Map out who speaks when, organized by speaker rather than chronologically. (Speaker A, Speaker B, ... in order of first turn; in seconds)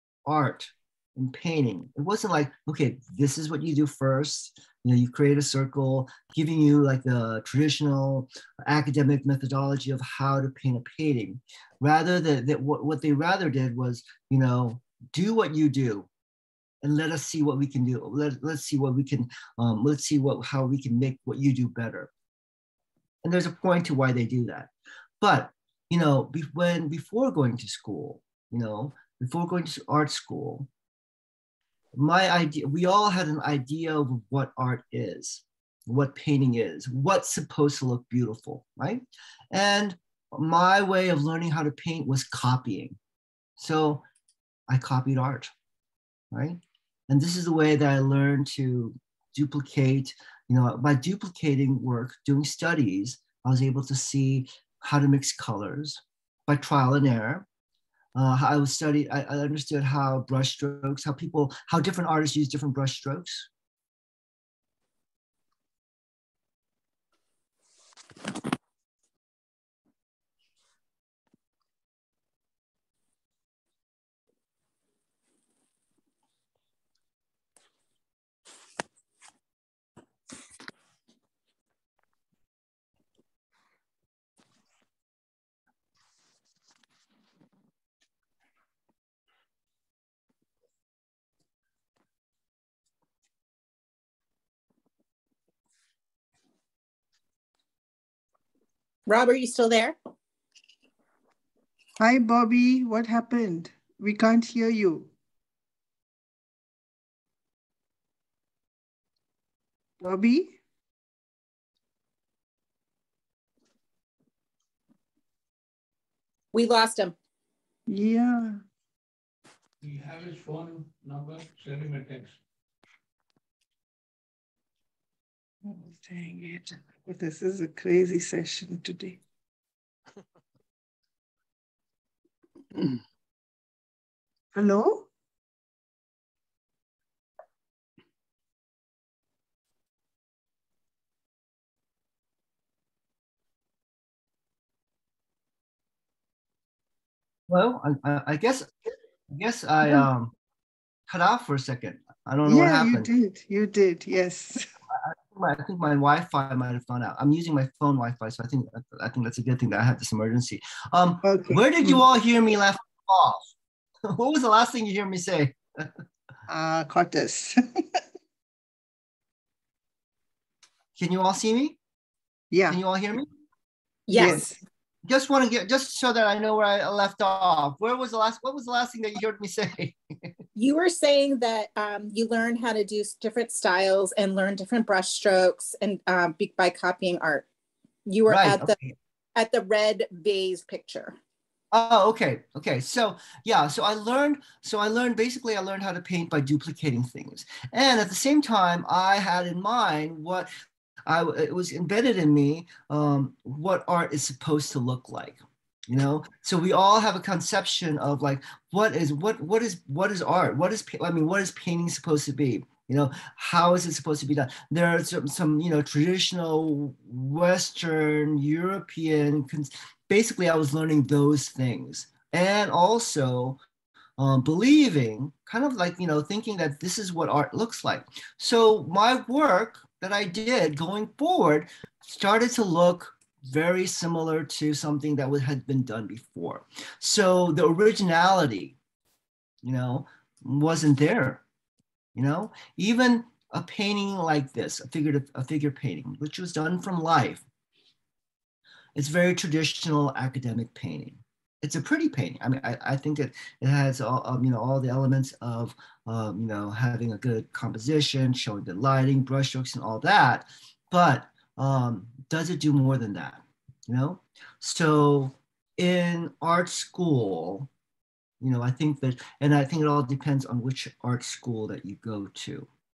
Speaker A: 0.2-16.1, 16.8-22.1, 23.2-24.7, 25.2-30.7, 31.9-39.0, 39.5-43.0, 43.6-44.0, 44.7-45.5, 46.3-57.5, 58.1-63.5, 147.5-148.7, 149.3-150.3, 151.1-153.1, 154.9-163.5, 164.1-165.9, 170.9-171.8, 172.7-173.3, 175.1-180.3, 188.3-188.9, 191.7-200.5, 201.1-223.6, 224.2-238.8, 239.6-241.4, 242.1-247.4, 248.9-267.7, 268.4-272.7
Speaker B: 99.1-100.0, 116.5-117.2, 174.1-174.4, 180.6-187.4, 188.1-188.7, 189.3-191.2
Speaker C: 102.0-105.1, 110.0-110.6, 117.9-118.6, 125.6-129.2, 134.5-135.1, 152.4-154.7, 161.2-162.0, 166.5-168.0, 172.5-172.8, 174.1-174.6
Speaker D: 119.8-122.3